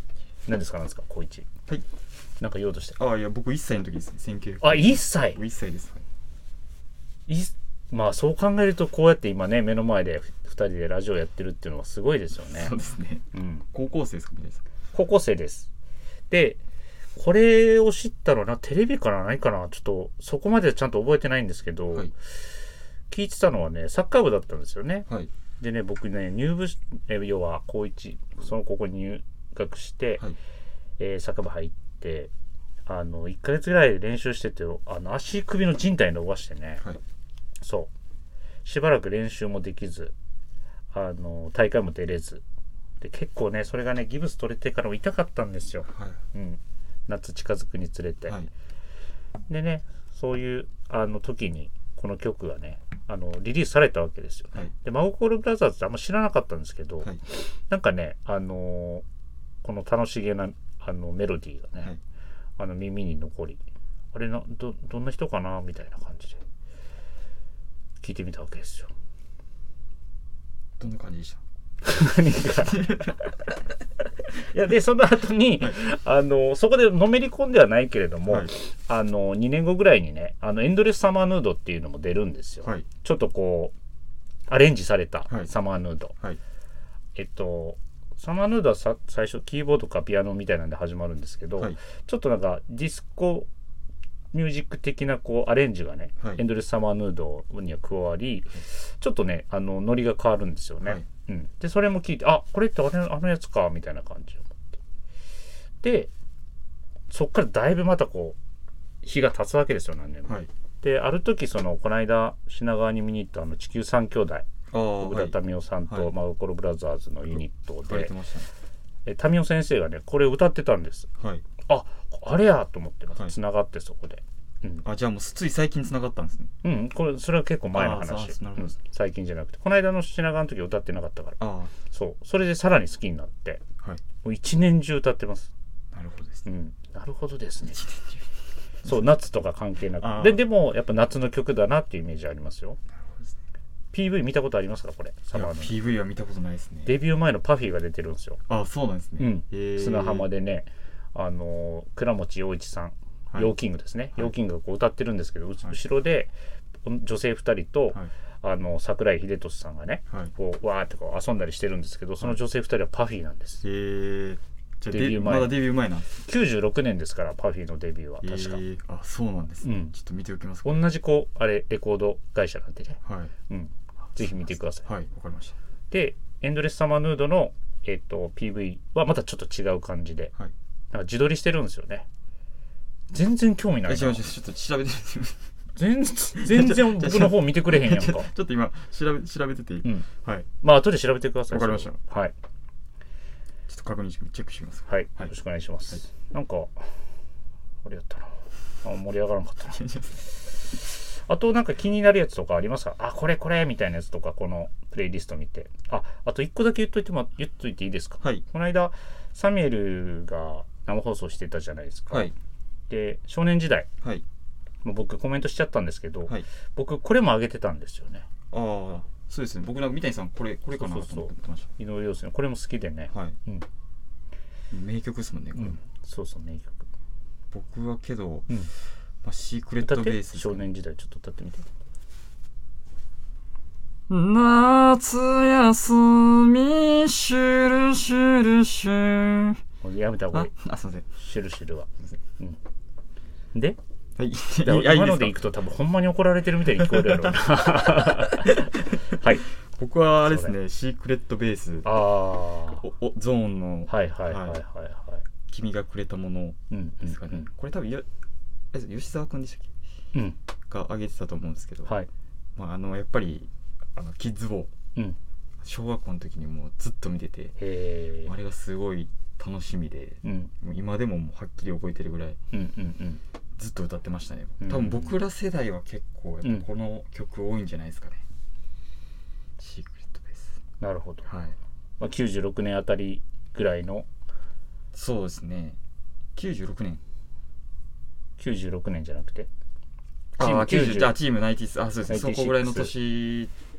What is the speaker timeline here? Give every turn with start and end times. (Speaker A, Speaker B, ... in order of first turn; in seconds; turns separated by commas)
Speaker A: 0.5-1.5, Speaker A: 2.4-3.0, Speaker B: 3.0-6.0, Speaker A: 4.6-5.4, Speaker A: 7.3-12.8, Speaker B: 12.5-14.6, Speaker A: 13.3-13.7, Speaker A: 14.9-15.7, Speaker A: 16.3-16.6, Speaker A: 17.2-22.1, Speaker A: 23.1-25.1, Speaker A: 25.6-30.2, Speaker A: 31.0-32.3, Speaker A: 32.9-36.8, Speaker A: 37.6-37.9, Speaker A: 38.6-40.1, Speaker A: 40.9-42.4, Speaker A: 43.0-48.4, Speaker B: 45.9-46.2, Speaker A: 49.5-59.0, Speaker A: 59.6-61.9, Speaker A: 62.6-63.6, Speaker A: 64.1-66.4, Speaker A: 68.0-68.9, Speaker B: 70.8-71.4, Speaker A: 71.8-73.3, Speaker B: 72.5-73.2, Speaker A: 74.4-83.7, Speaker B: 78.3-78.5, Speaker A: 84.5-86.2, Speaker A: 87.2-93.5, Speaker A: 94.3-104.8, Speaker A: 105.8-106.1, Speaker A: 107.1-108.4, Speaker A: 109.0-118.1, Speaker B: 114.7-116.1, Speaker B: 117.9-118.5, Speaker A: 119.1-121.1, Speaker B: 121.2-121.5, Speaker A: 121.7-124.8, Speaker B: 124.8-126.5, Speaker A: 126.6-131.4, Speaker B: 127.7-128.7, Speaker B: 131.4-131.7, Speaker A: 131.9-133.6, Speaker A: 134.2-135.5, Speaker B: 135.9-136.5, Speaker A: 136.4-137.8, Speaker B: 137.7-138.2, Speaker A: 138.8-142.8, Speaker B: 140.0-140.4, Speaker B: 142.9-143.3, Speaker A: 143.9-145.8, Speaker B: 145.3-147.0, Speaker A: 146.8-148.4, Speaker B: 148.5-150.3, Speaker A: 149.2-163.6, Speaker B: 163.6-166.1, Speaker A: 164.9-165.6, Speaker A: 166.2-168.6, Speaker B: 168.2-170.8, Speaker A: 169.6-169.9, Speaker A: 170.7-174.8, Speaker B: 173.0-173.3, Speaker B: 174.2-175.6, Speaker A: 175.9-180.3, Speaker A: 180.9-182.1, Speaker A: 183.1-184.2, Speaker B: 183.8-185.4, Speaker A: 185.8-188.3, Speaker B: 186.4-190.5, Speaker A: 190.6-192.3, Speaker B: 191.5-192.0, Speaker B: 193.7-195.3, Speaker A: 194.9-196.9, Speaker A: 197.8-199.8, Speaker B: 199.7-200.2, Speaker A: 201.1-212.3, Speaker A: 212.9-213.9, Speaker A: 214.8-218.3, Speaker B: 218.5-221.7, Speaker A: 220.8-223.7, Speaker B: 223.1-223.4, Speaker B: 224.7-225.8, Speaker A: 225.6-226.8, Speaker B: 227.5-228.5, Speaker B: 229.2-230.7, Speaker A: 229.8-231.7, Speaker B: 234.1-239.6, Speaker A: 239.8-240.5, Speaker B: 240.3-241.1, Speaker A: 241.2-242.6, Speaker B: 244.2-245.4, Speaker A: 244.6-249.5, Speaker B: 246.8-249.2, Speaker B: 249.7-251.9, Speaker A: 250.2-250.5, Speaker A: 251.8-252.9, Speaker B: 252.8-254.6, Speaker A: 253.9-255.2, Speaker B: 255.5-258.1, Speaker A: 256.7-257.5, Speaker B: 258.7-259.7, Speaker B: 260.7-261.9, Speaker B: 262.6-264.7, Speaker B: 265.6-267.6, Speaker A: 267.6-268.3, Speaker B: 268.3-272.4, Speaker A: 270.2-270.5, Speaker A: 272.5-273.2, Speaker B: 273.6-278.2, Speaker A: 274.6-275.1, Speaker B: 279.6-280.6, Speaker A: 280.8-281.3, Speaker B: 281.2-281.6, Speaker A: 282.0-284.1, Speaker B: 284.9-285.8, Speaker B: 286.4-287.0, Speaker A: 288.4-289.5, Speaker B: 290.4-293.5, Speaker A: 290.4-291.2, Speaker A: 292.1-292.9